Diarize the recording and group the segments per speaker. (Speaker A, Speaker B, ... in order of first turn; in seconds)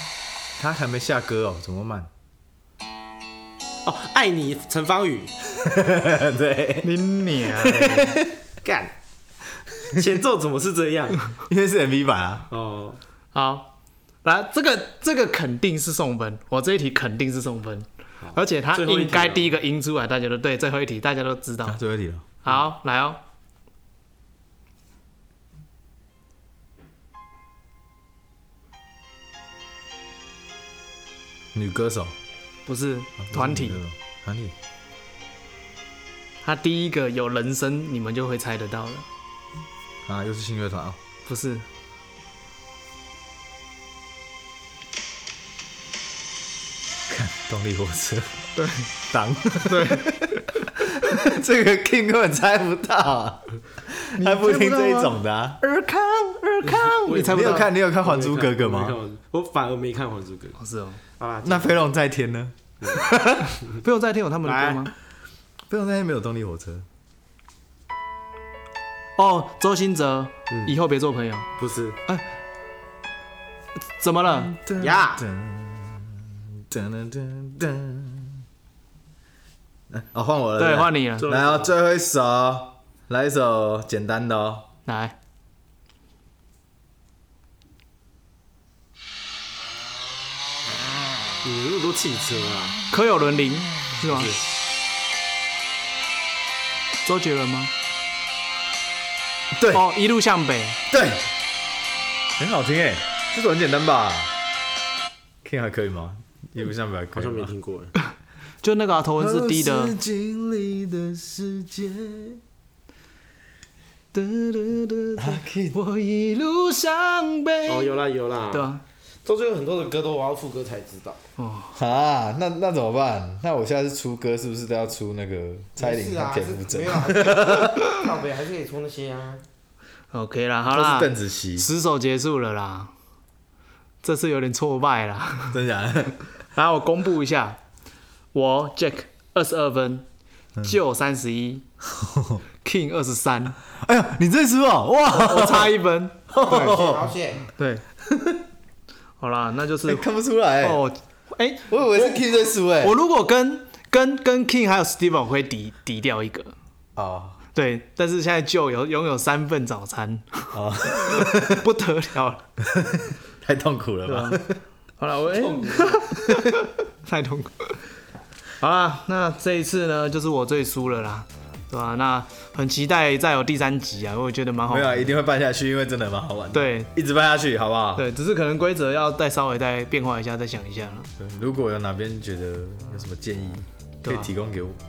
Speaker A: 0.6-2.1, 5.5-6.9, 7.5-8.3, 11.4-12.5, 21.6-22.2, 31.5-32.1, 33.2-34.5, 40.0-41.0, 47.1-48.4, 49.1-55.6, 56.8-59.0, 61.4-62.5, 65.7-66.8, 74.3-78.4, 79.9-84.7, 99.5-99.8, 100.9-101.2, 102.4-104.3, 105.4-107.5, 109.2-112.4, 115.2-115.8, 121.7-127.8, 130.7-131.7, 135.5-136.2, 141.9-142.4, 143.7-145.8, 146.3-147.1, 148.1-148.4, 149.8-150.8, 151.7-153.0, 156.9-157.4, 160.5-161.7, 162.6-164.6, 174.7-178.1, 181.2-184.8
Speaker B: 3.8-5.3, 8.6-8.9, 9.9-11.2, 12.5-13.0, 18.2-19.4, 56.6-60.6, 61.2-61.8, 62.8-63.1, 64.4-64.9, 71.6-72.0, 74.8-75.2, 81.2-81.7, 91.4-92.8, 107.1-107.9, 117.7-118.7, 119.2-121.2, 125.8-129.4, 146.3-147.4, 165.4-166.1
Speaker C: 6.8-8.2, 13.3-13.7, 14.2-21.8, 22.4-23.2, 32.6-33.8, 36.4-39.0, 41.2-41.6, 48.5-48.9, 49.7-50.5, 54.1-57.7, 60.6-61.0, 63.1-64.9, 69.2-71.5, 74.0-74.5, 80.6-81.3, 84.9-85.1, 92.9-94.4, 97.0-97.7, 99.7-100.8, 108.6-109.9, 114.1-117.9, 118.5-118.8, 121.4-121.8, 130.1-132.9, 134.0-135.6, 136.5-137.6, 138.3-140.1, 140.6-141.6, 142.6-143.6, 145.1-146.4, 147.6-147.8, 149.2-150.1, 150.6-152.3, 152.8-156.5, 157.5-162.4, 164.1-164.4, 165.0-167.8, 168.6-175.1, 176.5-176.9, 177.9-181.1, 184.0-184.3